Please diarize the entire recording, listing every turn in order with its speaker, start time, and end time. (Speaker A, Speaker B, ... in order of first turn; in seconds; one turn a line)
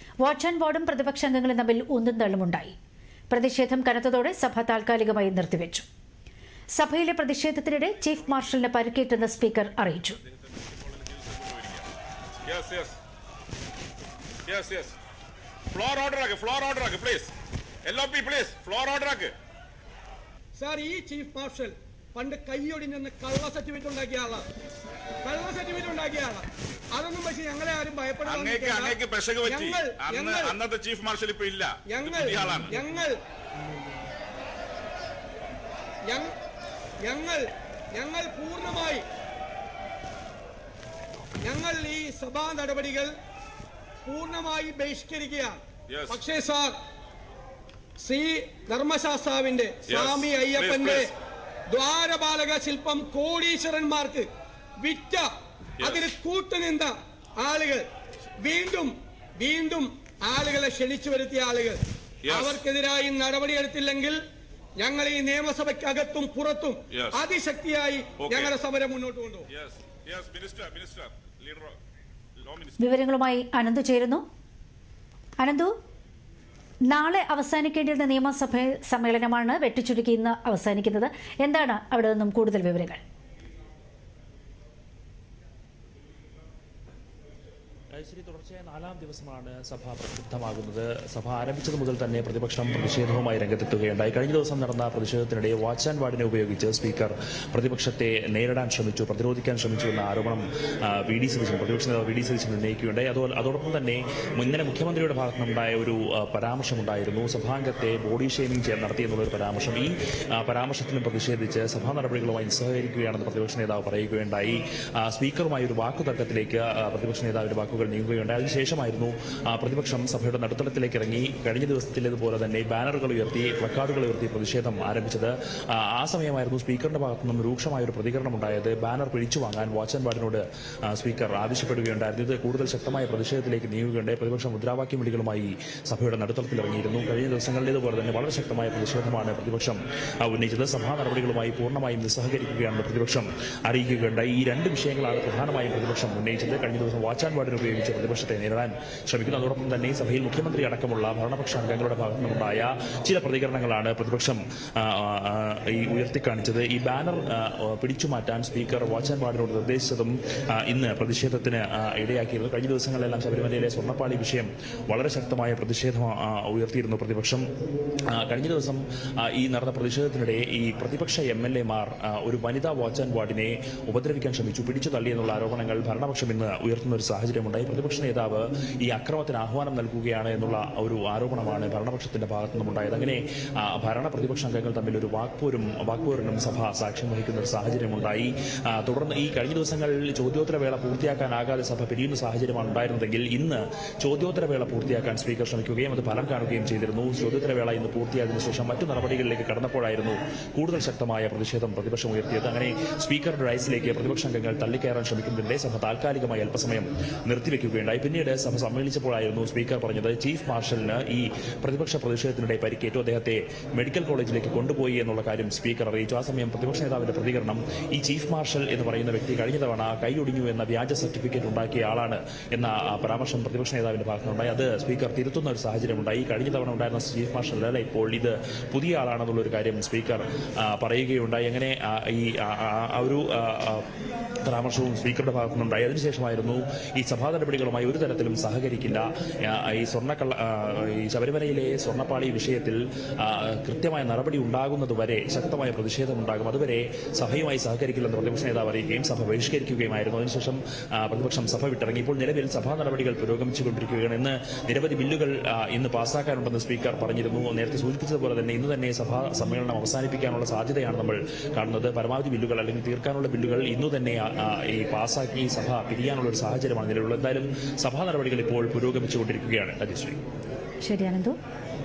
Speaker A: 0.2-2.8
Speaker A: 3.3-5.8
Speaker A: 6.7-10.2
Speaker B: 10.5-11.9
Speaker B: 12.5-13.0
Speaker B: 14.5-14.9
Speaker B: 15.7-17.3
Speaker B: 17.8-19.3
Speaker C: 20.6-24.4
Speaker C: 25.2-30.6
Speaker B: 28.2-32.8
Speaker C: 31.9-33.1
Speaker C: 37.0-39.0
Speaker C: 41.4-43.1
Speaker C: 44.0-45.6
Speaker B: 45.9-46.2
Speaker C: 46.1-46.8
Speaker C: 48.0-51.1
Speaker B: 49.9-51.1
Speaker C: 51.7-54.3
Speaker C: 54.8-55.3
Speaker C: 55.8-57.9
Speaker C: 58.4-64.2
Speaker B: 62.2-62.6
Speaker C: 64.8-69.5
Speaker B: 66.9-67.2
Speaker B: 68.2-68.5
Speaker B: 69.5-71.8
Speaker B: 72.4-72.8
Speaker A: 72.8-74.2
Speaker A: 75.4-75.7
Speaker A: 76.9-83.0
Speaker D: 87.9-167.4
Speaker D: 168.1-233.9
Speaker D: 234.4-270.2
Speaker A: 270.8-271.4